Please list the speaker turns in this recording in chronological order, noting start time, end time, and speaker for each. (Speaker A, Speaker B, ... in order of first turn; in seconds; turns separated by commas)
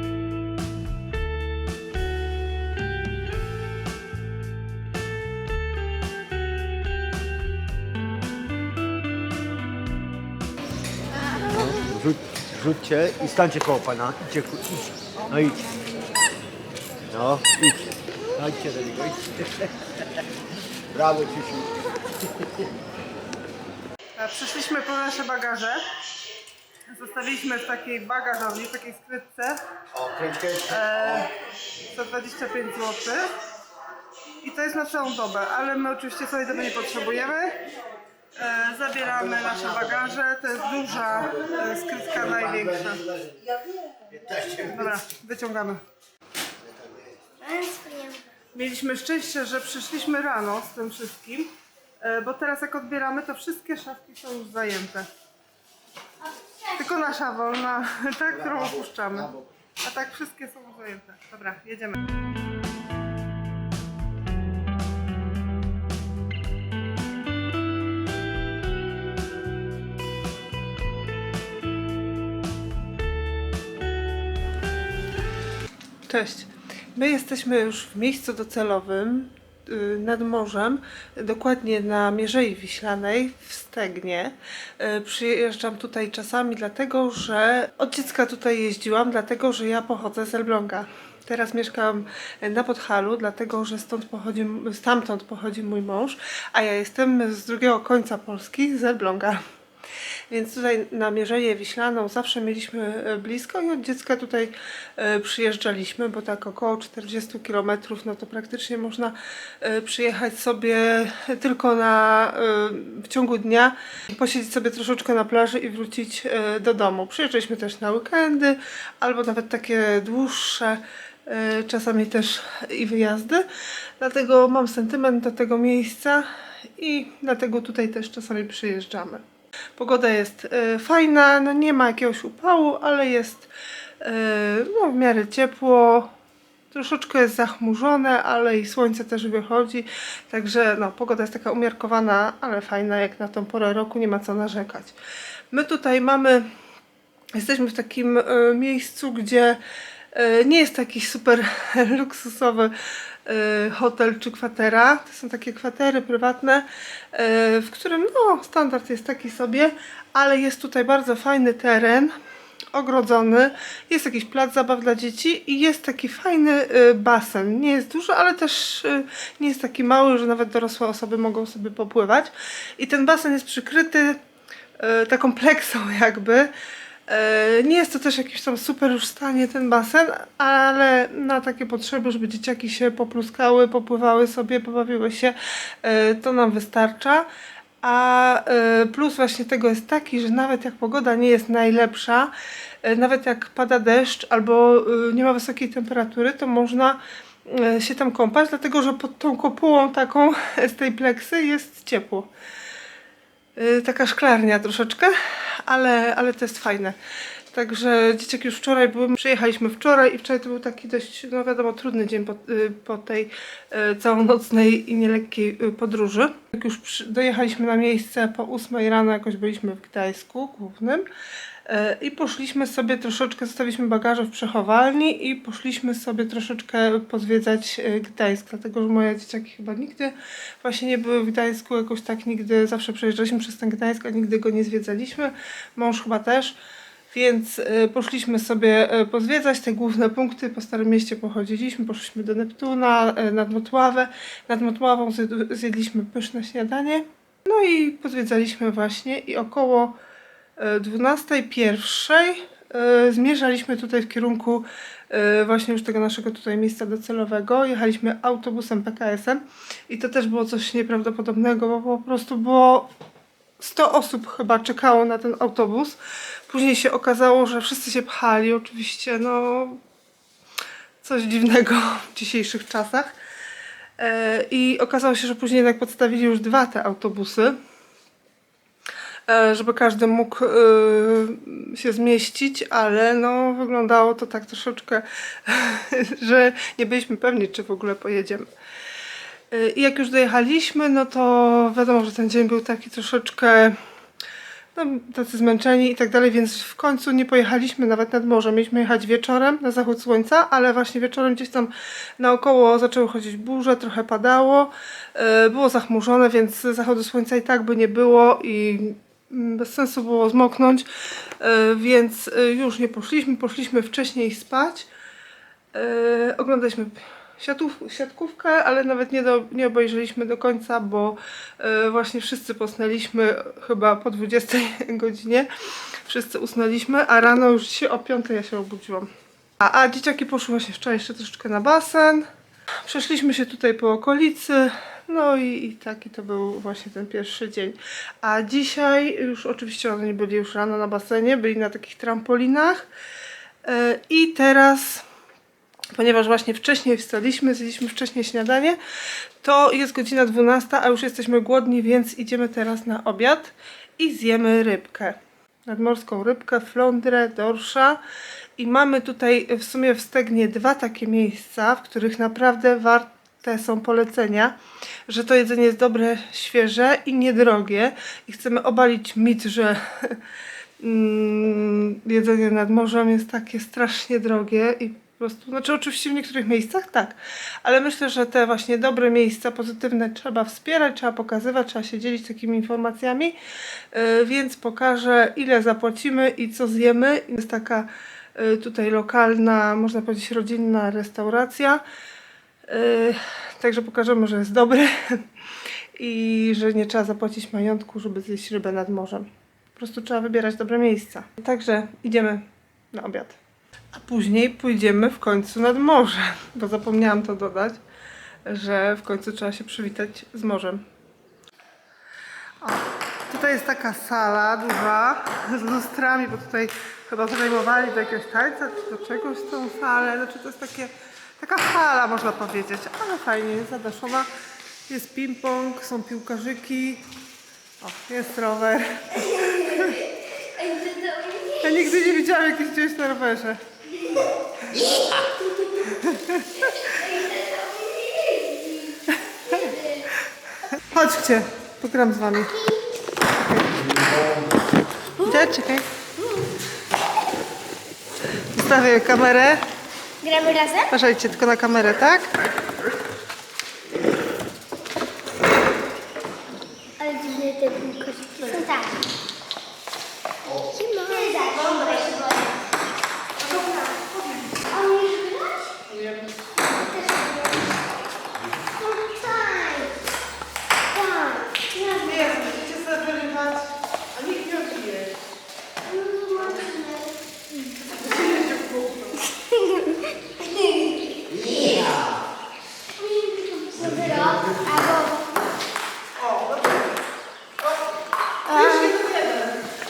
Speaker A: 11.4-15.6, Speaker A: 17.1-19.9, Speaker A: 20.9-22.7, Speaker B: 24.2-25.8, Speaker B: 26.9-29.6, Speaker A: 29.9-31.3, Speaker B: 30.7-31.3, Speaker B: 31.9-33.3, Speaker B: 34.4-37.6, Speaker B: 38.4-43.0, Speaker A: 39.0-40.1, Speaker A: 40.9-43.4, Speaker A: 44.1-45.0, Speaker B: 44.7-45.8, Speaker A: 46.6-47.2, Speaker C: 47.4-48.3, Speaker B: 48.5-55.1, Speaker C: 56.2-56.8, Speaker B: 56.8-59.3, Speaker A: 58.3-59.5, Speaker B: 59.8-62.0, Speaker B: 76.1-99.4, Speaker B: 100.3-123.4, Speaker B: 124.0-129.2, Speaker B: 129.8-133.5, Speaker B: 134.0-136.1, Speaker B: 136.7-144.9, Speaker B: 145.5-146.5, Speaker B: 147.3-149.6, Speaker B: 150.1-162.1, Speaker B: 162.7-174.2, Speaker B: 174.8-176.5, Speaker B: 177.1-187.2, Speaker B: 187.8-202.3, Speaker B: 203.6-206.9, Speaker B: 207.5-221.1, Speaker B: 221.7-236.5, Speaker B: 237.1-250.0, Speaker B: 250.6-262.9, Speaker B: 263.6-269.8, Speaker B: 271.0-273.1, Speaker B: 274.0-277.6, Speaker B: 279.3-288.5, Speaker B: 289.5-293.8, Speaker B: 294.7-310.9, Speaker B: 311.4-314.9, Speaker B: 315.7-325.5, Speaker B: 326.0-332.3, Speaker B: 332.9-342.9, Speaker B: 343.6-345.0, Speaker B: 345.9-348.8, Speaker B: 349.4-358.0, Speaker B: 358.6-364.5, Speaker B: 365.1-370.2, Speaker B: 370.8-383.3, Speaker B: 383.9-391.8, Speaker B: 392.7-395.3, Speaker B: 396.0-403.4, Speaker B: 403.9-407.8, Speaker B: 408.4-410.8, Speaker B: 412.6-424.3, Speaker B: 424.9-427.0, Speaker B: 427.8-430.0, Speaker C: 429.3-431.8, Speaker B: 431.6-433.6, Speaker C: 434.1-436.1, Speaker B: 435.9-436.8, Speaker C: 436.7-440.1, Speaker B: 439.1-439.7, Speaker B: 440.7-442.5, Speaker C: 442.4-442.8, Speaker B: 443.3-443.8, Speaker A: 443.8-444.3, Speaker B: 445.2-445.9, Speaker B: 448.5-449.6, Speaker C: 450.2-450.9, Speaker B: 450.9-452.3, Speaker C: 457.0-459.0, Speaker C: 460.4-462.5, Speaker B: 461.3-462.5, Speaker B: 463.4-464.6, Speaker C: 464.7-465.7, Speaker B: 465.9-466.3, Speaker C: 466.7-467.6, Speaker C: 468.8-469.9, Speaker C: 470.9-472.4, Speaker B: 471.7-475.2, Speaker C: 475.8-477.1, Speaker B: 477.9-479.3, Speaker C: 479.4-480.9, Speaker A: 481.3-482.2, Speaker C: 483.0-485.4, Speaker A: 483.8-484.7, Speaker B: 486.1-486.9, Speaker C: 488.5-488.9, Speaker B: 488.5-489.6